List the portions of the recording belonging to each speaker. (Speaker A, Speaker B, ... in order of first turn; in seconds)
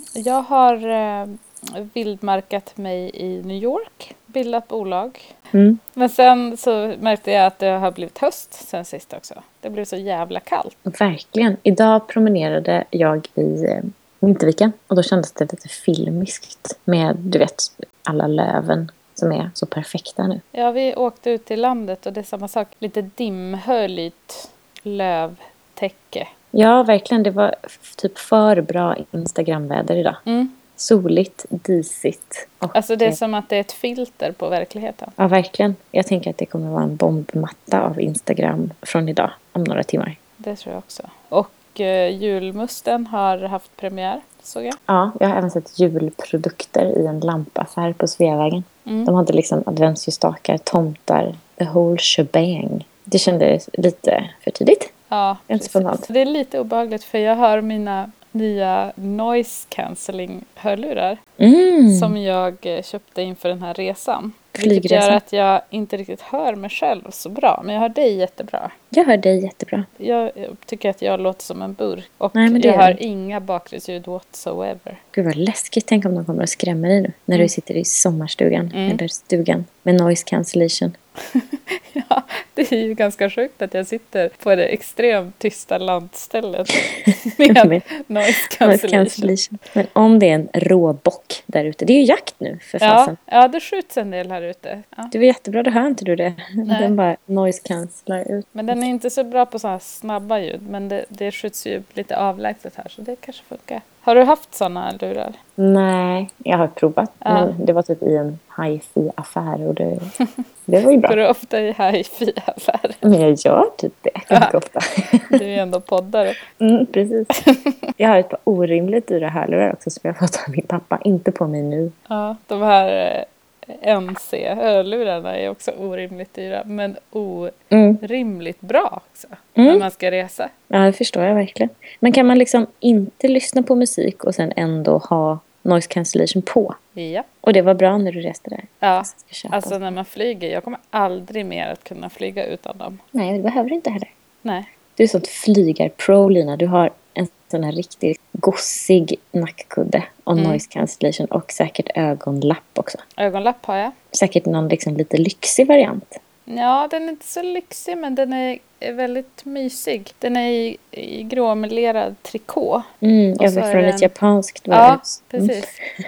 Speaker A: 0.2-5.3, 6.0-10.8, 20.5-26.3, 30.2-30.6, 32.7-35.1, 40.4-44.8, 48.9-49.1, 55.1-61.2, 61.9-68.7, 70.0-75.0, 78.7-79.0, 81.3-89.3, 92.8-95.1, 96.7-96.9, 98.5-105.4, 107.2-107.5, 111.0-113.1, 114.3-114.5, 115.3-116.4, 117.4-117.7, 122.1-130.5, 136.9-137.3, 138.8-143.0, 150.4-150.6, 153.2-153.9, 156.5-162.9, 163.4-164.1, 164.7-165.7
Speaker B: 5.5-5.8, 10.9-20.4, 26.5-30.2, 30.8-33.2, 35.2-40.2, 44.9-54.9, 55.5-56.0, 61.4-62.1, 64.5-65.2, 68.9-69.9, 72.3-73.0, 75.1-80.9, 87.4-87.8, 88.5-93.2, 95.1-98.8, 105.6-110.1, 110.7-111.2, 113.0-115.4, 116.6-117.4, 118.0-121.9, 127.7-128.0, 129.6-129.8, 130.7-136.8, 137.4-139.8, 143.1-144.1, 145.0-153.0, 154.1-156.1, 163.0-165.8